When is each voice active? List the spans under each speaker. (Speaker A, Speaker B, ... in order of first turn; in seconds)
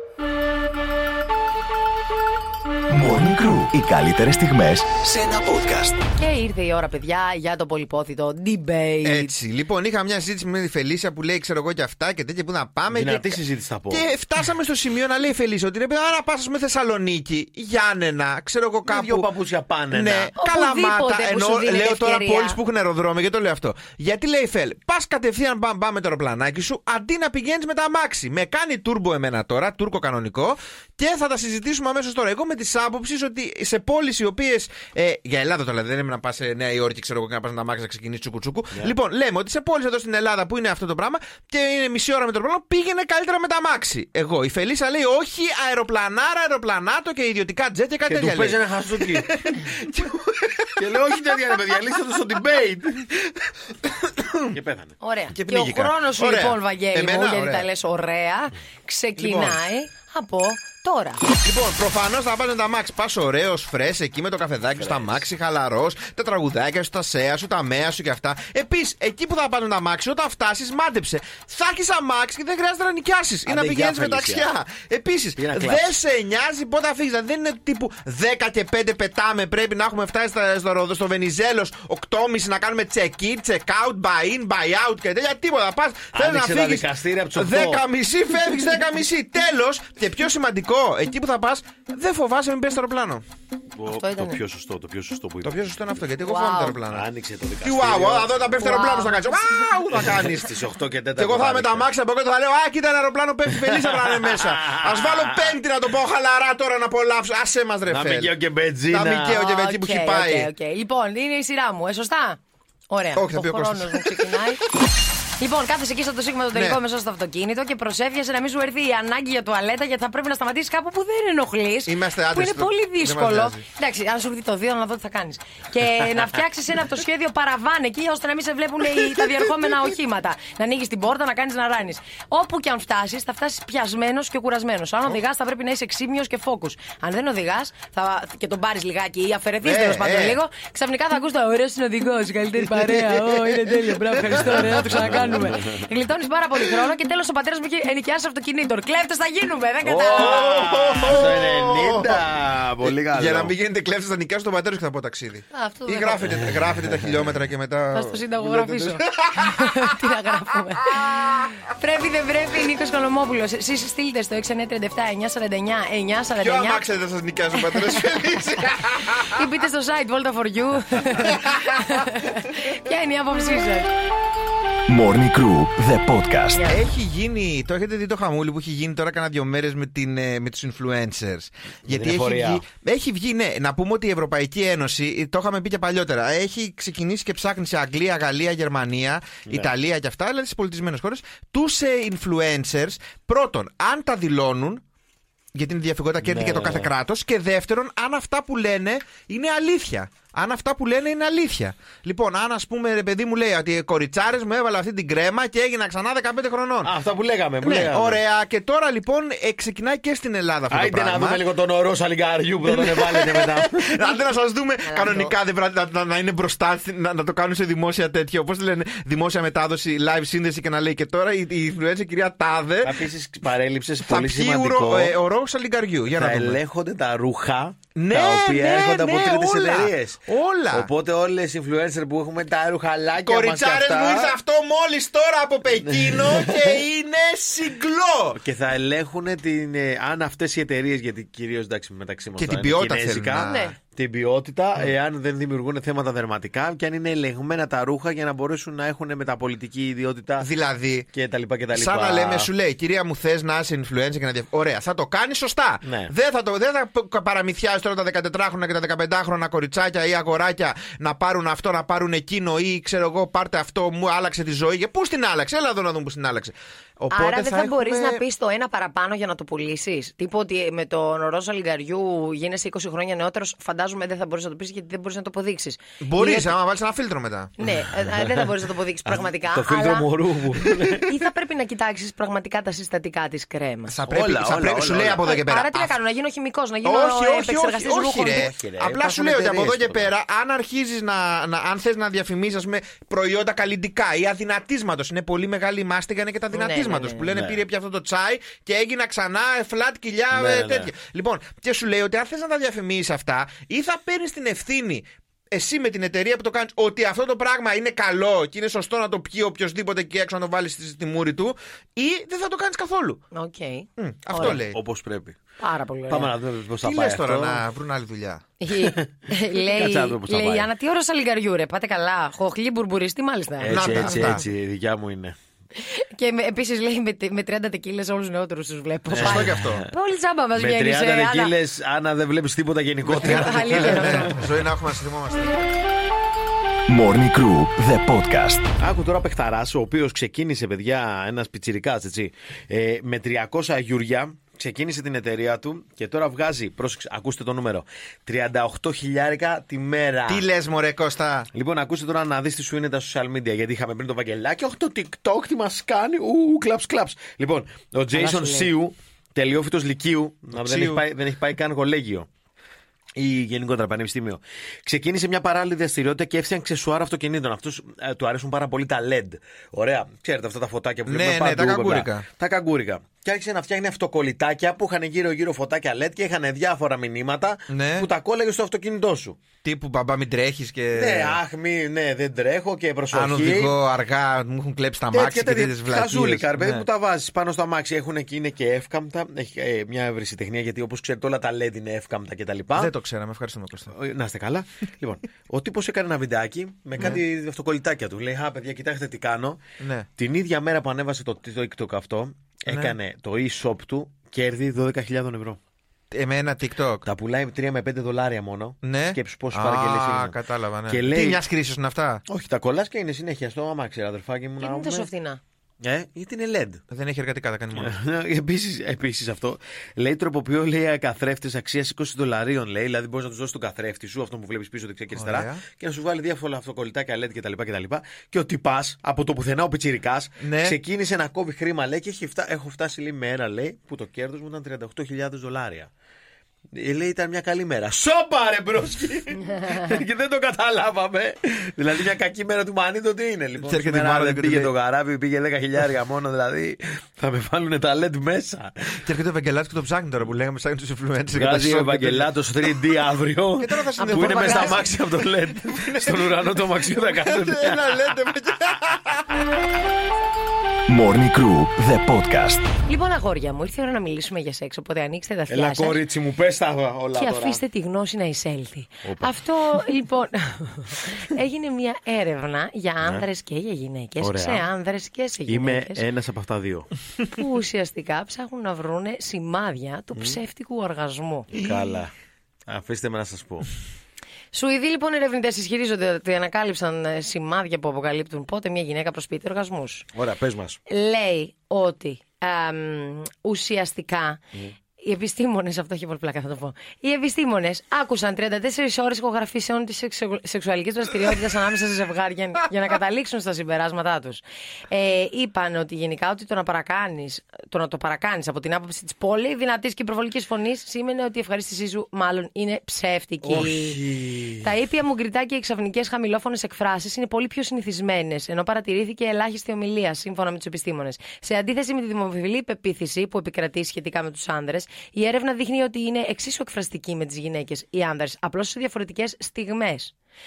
Speaker A: 2.9-6.0, 174.9-176.6, 336.9-338.7, 460.9-462.7
Speaker B: 6.2-9.3, 20.4-22.6, 55.0-61.2, 93.9-94.4, 96.2-96.8, 98.6-99.3, 109.3-112.4, 112.9-114.7, 115.4-150.6, 155.5-156.2, 157.9-166.8, 167.6-168.0, 169.3-173.9, 176.5-176.8, 214.8-215.2, 243.3-243.7, 267.1-276.5, 277.6-280.1, 281.0-284.0, 285.2-288.5, 296.5-297.3, 313.3-314.6, 315.6-316.3, 318.6-324.3, 325.8-331.5, 333.1-334.4, 358.1-358.7, 414.6-415.4, 454.0-454.8, 462.8-466.0, 467.1-476.0, 477.3-481.6, 484.5-490.1, 490.9-494.4, 495.0-530.1
Speaker C: 9.0-19.3, 19.9-51.7, 53.8-54.5, 55.3-57.7, 59.2-59.6, 61.4-93.2, 95.4-97.0, 97.6-100.5, 101.2-108.3, 108.9-110.5, 113.1-114.3, 116.5-116.8, 121.8-123.7, 139.6-140.4, 150.2-152.2, 153.1-160.1, 160.9-161.5, 166.4-169.4, 171.1-171.9, 176.7-194.8, 195.5-206.9, 207.6-211.4, 212.7-223.0, 224.1-226.6, 227.9-230.9, 233.2-238.4, 242.4-243.6, 250.4-251.1, 251.7-268.2, 276.0-277.5, 283.9-285.9, 286.8-313.2, 314.0-314.8, 316.8-318.5, 323.7-324.4, 329.1-329.8, 333.1-335.6, 350.3-351.5, 360.5-361.0, 371.1-372.2, 377.7-378.1, 379.6-381.4, 383.1-386.9, 392.8-393.9, 399.8-400.1, 402.7-402.9, 406.1-407.1, 408.8-412.2, 416.9-417.9, 425.1-425.6, 430.4-430.8, 443.6-444.7, 449.0-452.3, 453.6-459.4
Speaker D: 12.9-14.1, 18.8-20.3, 48.1-49.7, 50.8-53.1, 54.5-55.0, 64.8-65.2, 73.5-74.5, 75.4-76.0, 86.1-87.8, 93.7-95.6, 96.8-98.6, 99.9-101.9, 103.5-105.6, 107.9-109.5, 144.2-145.8, 149.8-153.5, 156.5-157.2, 181.8-182.6, 196.2-196.9, 206.8-208.2, 210.7-213.9, 215.0-215.3, 222.8-225.1, 226.1-234.4, 235.8-236.8, 238.3-250.5, 251.1-252.5, 255.8-256.1, 277.7-278.5, 279.1-281.1, 284.1-285.3, 288.3-290.1, 297.3-297.6, 300.3-300.9, 314.3-315.4, 316.1-317.6, 318.7-320.7, 323.6-325.4, 329.1-329.9, 330.5-334.5, 338.8-350.4, 351.5-362.3, 363.1-379.4, 380.9-383.8, 385.1-392.9, 393.9-399.6, 400.2-405.6, 407.0-411.4, 412.3-415.1, 415.8-416.8, 417.7-435.9, 436.7-449.0, 451.3-458.2, 465.5-467.6, 469.0-469.4, 474.2-474.7, 475.5-476.9, 481.5-482.1, 482.7-483.7, 490.1-490.8, 513.4-514.7